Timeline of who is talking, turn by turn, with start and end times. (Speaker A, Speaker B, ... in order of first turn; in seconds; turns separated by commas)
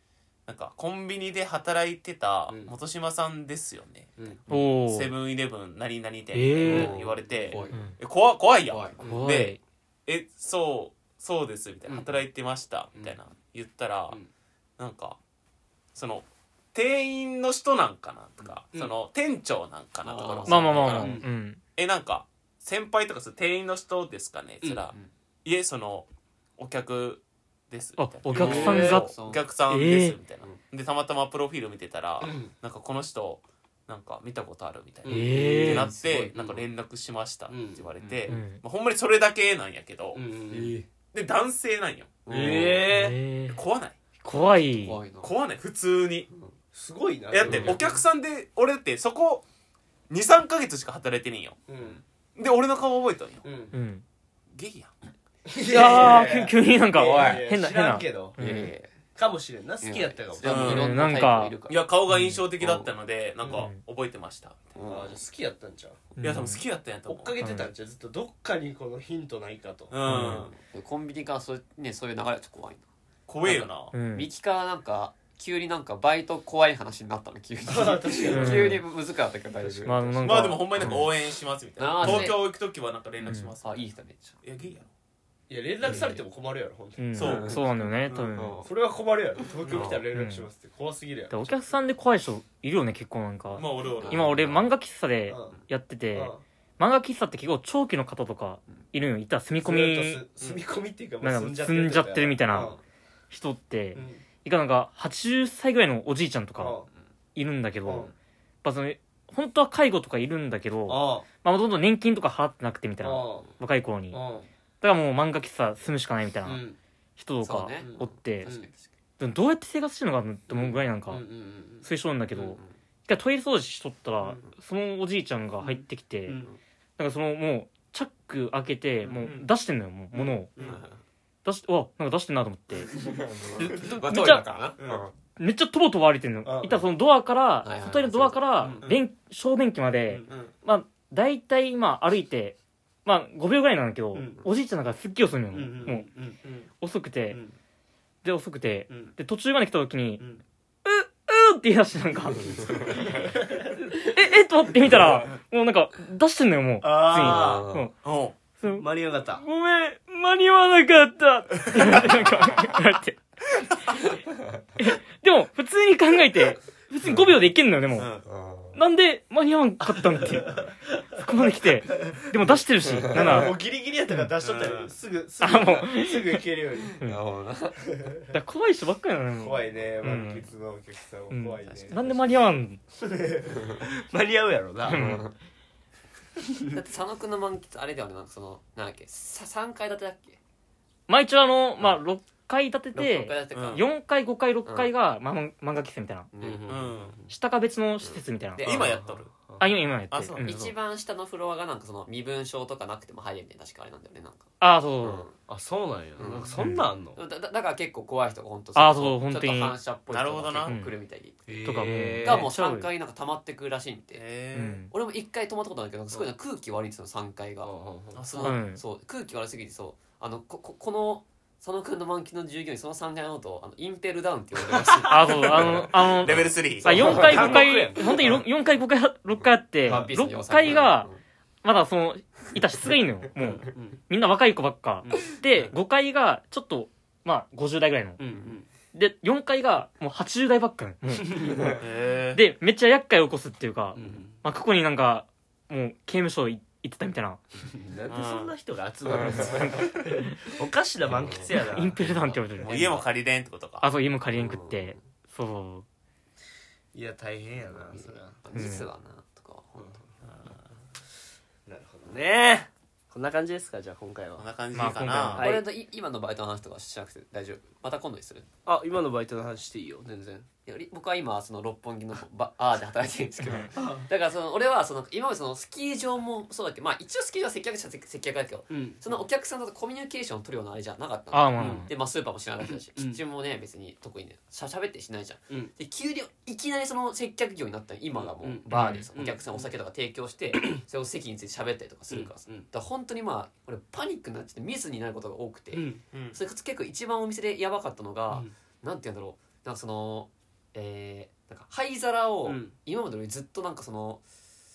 Speaker A: 0.5-4.1, Speaker B: 2.5-2.8, Speaker C: 4.5-5.1, Speaker A: 4.8-14.2, Speaker C: 6.3-7.0, Speaker D: 6.7-7.9, Speaker B: 6.7-6.9, Speaker D: 8.7-9.1, Speaker B: 9.0-9.3, Speaker C: 9.1-9.6, Speaker B: 11.9-12.2, Speaker A: 14.8-15.2, Speaker A: 15.9-21.2, Speaker D: 20.0-21.0, Speaker C: 20.4-21.6, Speaker B: 20.9-21.3, Speaker A: 21.8-40.2, Speaker C: 28.0-29.1, Speaker B: 28.3-29.0, Speaker D: 28.3-29.4, Speaker C: 29.7-30.2, Speaker B: 32.2-32.5, Speaker B: 35.0-35.9, Speaker C: 35.1-35.9, Speaker D: 35.6-36.6, Speaker B: 37.5-37.9, Speaker D: 38.0-38.3, Speaker C: 38.3-38.6, Speaker B: 40.1-40.8, Speaker D: 40.5-40.8, Speaker A: 41.1-42.2, Speaker D: 42.2-42.8, Speaker B: 42.3-43.2, Speaker C: 42.9-43.6, Speaker A: 43.5-44.0, Speaker C: 44.2-45.0, Speaker D: 44.8-45.3, Speaker A: 45.2-46.3, Speaker B: 46.7-47.9, Speaker A: 47.3-49.4, Speaker C: 47.5-47.8, Speaker A: 50.1-51.6, Speaker B: 51.7-52.0, Speaker A: 52.4-53.4, Speaker B: 53.4-53.7, Speaker C: 53.7-54.0, Speaker A: 54.5-54.9, Speaker B: 55.5-58.4, Speaker C: 55.6-58.7, Speaker D: 57.0-57.4, Speaker D: 58.4-58.9, Speaker B: 59.1-60.7, Speaker D: 59.8-61.8, Speaker A: 60.4-60.9, Speaker C: 60.5-61.5, Speaker A: 61.7-64.7, Speaker C: 62.1-62.4, Speaker D: 62.6-62.9, Speaker B: 63.4-63.7, Speaker C: 63.5-63.8, Speaker D: 64.7-65.2, Speaker B: 64.8-66.0, Speaker C: 66.2-66.6, Speaker A: 66.2-67.4, Speaker B: 67.1-70.3, Speaker C: 67.4-67.7, Speaker A: 69.9-70.5, Speaker C: 70.0-70.5, Speaker D: 70.1-72.8, Speaker A: 73.3-73.9, Speaker D: 73.4-80.5, Speaker C: 73.9-74.3, Speaker B: 77.6-78.8, Speaker C: 78.3-78.8, Speaker B: 79.6-80.0, Speaker C: 79.8-81.1, Speaker A: 80.2-83.8, Speaker D: 81.8-82.4, Speaker C: 82.0-82.3, Speaker C: 83.2-83.5, Speaker D: 83.6-84.3, Speaker A: 84.4-84.9, Speaker B: 85.5-87.3, Speaker C: 87.0-88.6, Speaker A: 87.1-88.5, Speaker D: 87.2-87.6, Speaker D: 88.3-88.7, Speaker B: 88.5-91.5, Speaker A: 89.6-90.0, Speaker D: 89.7-90.0, Speaker C: 90.1-90.5, Speaker C: 91.3-100.2, Speaker A: 93.5-94.5, Speaker D: 94.0-94.7, Speaker B: 95.3-95.6, Speaker B: 96.1-96.4, Speaker B: 99.6-102.8, Speaker C: 101.2-102.8, Speaker C: 103.3-106.8, Speaker B: 103.9-104.2, Speaker B: 106.6-106.9, Speaker C: 107.3-108.1, Speaker B: 107.8-108.1, Speaker C: 108.6-114.2, Speaker B: 110.9-111.3, Speaker B: 113.0-113.5, Speaker B: 114.1-114.5, Speaker C: 114.8-116.6, Speaker B: 116.4-116.8, Speaker C: 117.2-118.5, Speaker D: 117.4-118.9, Speaker B: 117.8-118.7, Speaker C: 119.2-121.2, Speaker B: 120.5-121.9, Speaker C: 121.8-126.4, Speaker B: 125.7-126.5, Speaker C: 127.0-130.5, Speaker A: 129.1-129.4, Speaker B: 130.1-130.8, Speaker D: 130.6-130.9, Speaker C: 131.4-132.9, Speaker D: 133.1-134.8, Speaker C: 133.6-134.4, Speaker B: 134.8-135.1, Speaker C: 135.4-146.1, Speaker B: 136.4-136.8, Speaker D: 137.6-138.4, Speaker B: 138.6-138.9, Speaker B: 144.1-144.4, Speaker B: 145.5-146.4, Speaker C: 146.8-147.4, Speaker C: 148.2-150.2, Speaker C: 150.8-157.9, Speaker B: 153.3-153.8, Speaker B: 156.8-157.7, Speaker D: 157.2-157.9, Speaker A: 158.0-158.3, Speaker C: 158.6-164.1, Speaker B: 158.7-159.4, Speaker C: 164.8-168.1, Speaker A: 167.9-168.3, Speaker C: 168.7-173.6, Speaker B: 169.8-170.7, Speaker B: 173.0-177.0, Speaker A: 174.4-174.9, Speaker C: 175.4-176.4, Speaker D: 177.0-177.8, Speaker B: 177.8-178.3, Speaker C: 178.3-180.5, Speaker B: 179.4-182.3, Speaker C: 181.3-182.8, Speaker B: 183.0-185.2, Speaker C: 184.8-185.2, Speaker D: 184.9-185.3, Speaker B: 186.4-186.8, Speaker D: 186.7-190.4, Speaker C: 191.1-196.3, Speaker D: 192.9-193.8, Speaker A: 193.5-193.8, Speaker D: 194.7-194.9, Speaker D: 196.3-196.7, Speaker B: 196.4-197.3, Speaker A: 196.7-197.2, Speaker C: 197.3-198.6, Speaker D: 198.0-198.9, Speaker A: 198.6-199.3, Speaker B: 198.6-199.7, Speaker C: 199.6-200.7, Speaker A: 200.1-200.4, Speaker D: 200.4-204.4, Speaker C: 204.6-205.3, Speaker D: 205.0-205.3, Speaker B: 205.5-207.2, Speaker D: 206.2-206.6, Speaker C: 206.5-206.9, Speaker D: 207.2-211.5, Speaker C: 208.7-209.8, Speaker A: 210.1-210.7, Speaker C: 210.7-210.9, Speaker B: 211.5-212.5, Speaker C: 211.6-212.9, Speaker D: 212.2-214.2, Speaker A: 214.1-214.8, Speaker C: 214.5-214.9, Speaker D: 214.9-225.8, Speaker B: 217.6-218.2, Speaker A: 218.1-218.6, Speaker C: 218.4-218.8, Speaker C: 225.1-231.1, Speaker A: 225.6-227.6, Speaker B: 226.8-228.4, Speaker D: 229.8-231.2, Speaker C: 231.6-238.2, Speaker B: 233.7-234.0, Speaker B: 235.0-235.3, Speaker B: 238.2-238.7, Speaker C: 238.9-241.8, Speaker B: 241.3-241.7, Speaker A: 241.7-242.4, Speaker C: 242.3-247.4, Speaker B: 243.9-244.3, Speaker B: 247.7-252.4, Speaker A: 248.1-248.5, Speaker C: 249.2-250.4, Speaker C: 251.3-253.0, Speaker A: 252.6-253.9, Speaker C: 253.8-255.8, Speaker D: 254.3-254.9, Speaker B: 256.9-258.4, Speaker D: 257.9-260.0, Speaker C: 258.5-258.9, Speaker B: 259.8-260.6, Speaker B: 261.6-264.4, Speaker A: 264.4-265.5, Speaker C: 264.7-265.4, Speaker B: 265.3-265.6, Speaker D: 265.4-268.5, Speaker B: 268.6-270.4, Speaker D: 270.6-304.2, Speaker C: 273.4-273.7, Speaker B: 273.7-274.1, Speaker B: 278.7-279.0, Speaker C: 281.3-281.9, Speaker B: 281.6-281.9, Speaker B: 282.9-283.2, Speaker B: 288.2-289.6, Speaker C: 288.7-289.1, Speaker B: 290.5-290.8, Speaker B: 292.1-292.6, Speaker B: 295.7-296.0, Speaker A: 296.1-296.4, Speaker B: 302.4-302.7